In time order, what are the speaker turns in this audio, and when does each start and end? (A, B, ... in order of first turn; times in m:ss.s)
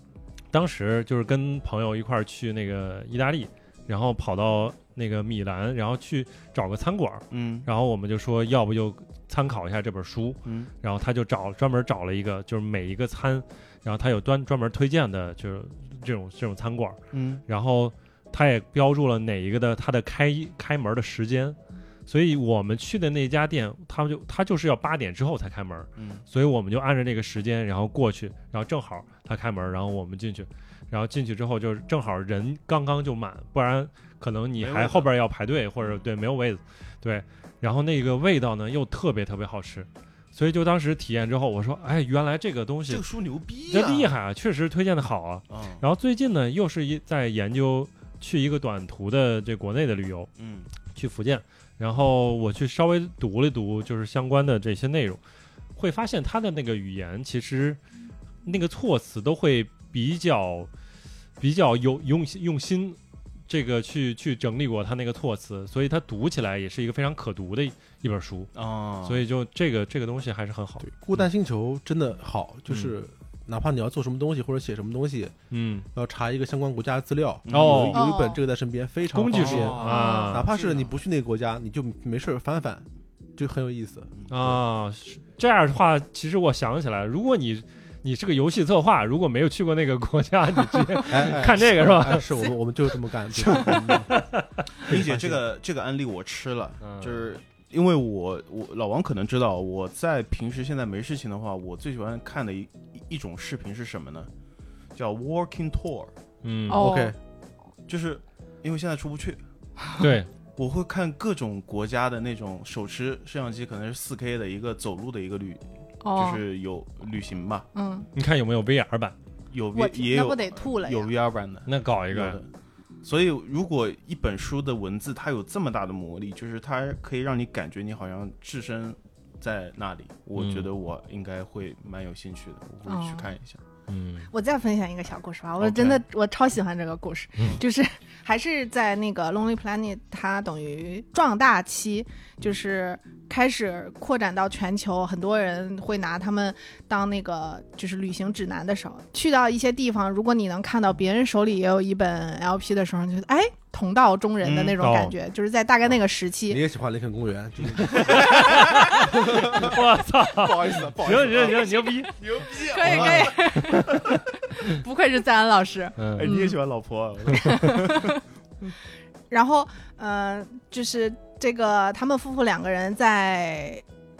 0:00.5-0:43.0 A
0:07.3-0:07.7 B
0:10.4-0:10.7 B
0:17.1-0:17.4 B
0:26.0-0:26.2 B
0:34.6-0:35.1 B
0:35.8-0:36.0 B
0:42.9-0:44.1 B
0:43.7-0:50.3 A
0:45.5-0:45.8 B
0:50.4-0:50.7 B
0:50.9-0:55.2 A
0:55.8-0:57.8 A
0:58.4-1:00.7 A
1:01.4-1:03.0 A
1:03.5-1:08.5 A
1:08.5-1:09.2 B
1:09.0-1:10.9 A
1:10.8-1:15.3 C
1:15.5-1:15.8 A
1:15.9-1:24.6 C
1:17.4-1:17.9 B
1:17.5-1:18.0 A
1:17.9-1:18.4 D
1:19.1-1:20.5 A
1:19.3-1:20.9 B
1:19.8-1:20.3 D
1:24.2-1:24.5 B
1:24.3-1:32.2 A
1:31.1-1:34.2 C
1:33.4-1:34.5 A
1:34.8-1:44.3 B
1:34.8-1:35.4 C
1:36.8-1:37.2 A
1:44.9-1:46.1 B
1:46.4-1:46.8 A
1:46.7-1:47.1 D
1:46.7-1:47.2 C
1:47.9-1:49.4 B
1:50.0-1:50.3 A
1:50.6-1:57.6 B
1:56.0-1:56.4 D
1:57.7-1:58.1 D
1:58.1-1:59.2 A
1:59.5-2:02.5 B
1:59.7-2:01.1 D
2:01.6-2:02.4 A
2:03.0-2:13.6 B
2:10.4-2:10.7 A
2:12.9-2:13.3 D
2:13.9-2:14.3 A
2:14.3-2:36.6 D
2:15.6-2:16.0 B
2:34.4-2:34.8 B
2:34.8-2:35.1 A
2:36.5-2:39.8 C
2:37.9-2:42.1 A
2:40.3-2:41.9 C
2:42.2-2:44.1 B
2:42.6-2:46.6 D
2:42.8-2:43.3 C
2:43.5-2:44.0 A
2:46.0-2:46.3 A
2:46.2-2:48.1 B
2:47.3-2:48.2 D
2:49.3-2:53.8 D